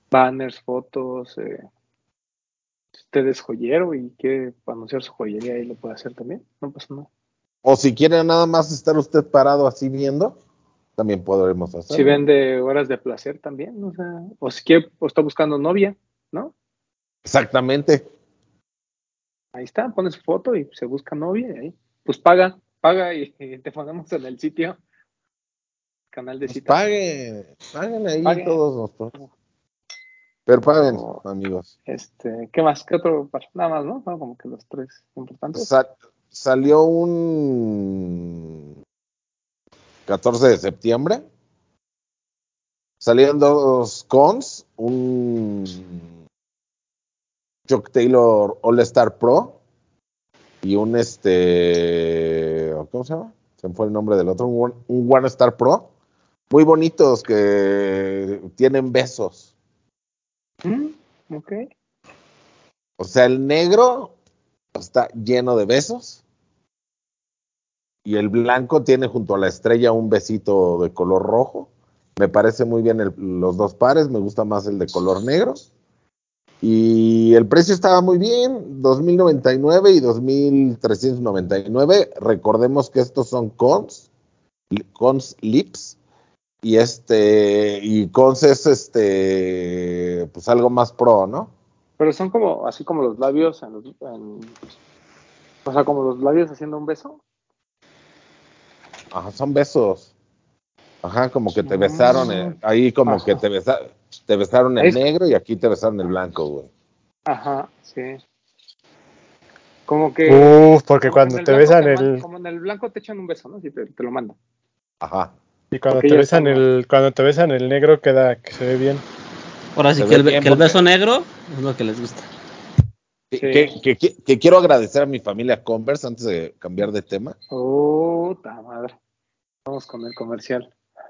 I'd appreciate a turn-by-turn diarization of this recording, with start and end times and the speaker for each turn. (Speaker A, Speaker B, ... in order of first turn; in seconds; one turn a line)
Speaker A: 0.1-1.6
Speaker A: 3.0-7.1
Speaker B: 7.6-10.3
Speaker B: 11.0-12.2
Speaker A: 11.9-16.5
Speaker B: 17.2-18.1
Speaker A: 19.6-24.8
Speaker A: 26.1-26.9
Speaker B: 26.5-29.1
Speaker A: 28.2-28.6
Speaker B: 30.5-31.7
Speaker A: 30.8-31.2
Speaker A: 31.9-35.7
Speaker B: 35.5-38.6
Speaker B: 40.1-41.2
Speaker B: 43.0-46.0
Speaker B: 47.7-49.6
Speaker B: 50.6-55.9
Speaker B: 56.5-59.5
Speaker A: 60.6-61.6
Speaker B: 63.0-64.1
Speaker B: 64.7-66.2
Speaker B: 68.0-75.7
Speaker B: 76.6-84.1
Speaker B: 84.7-86.0
Speaker B: 86.6-91.5
Speaker A: 92.0-94.5
Speaker A: 95.7-97.2
Speaker B: 99.1-100.1
Speaker B: 101.0-106.7
Speaker A: 101.6-103.4
Speaker A: 107.3-108.2
Speaker A: 109.9-114.4
Speaker C: 110.3-112.2
Speaker B: 115.0-115.3
Speaker C: 115.7-119.0
Speaker A: 115.9-116.7
Speaker D: 119.8-122.3
Speaker B: 120.0-120.8
Speaker B: 123.3-127.4
Speaker A: 123.4-123.7
Speaker A: 127.5-128.9
Speaker A: 129.7-130.7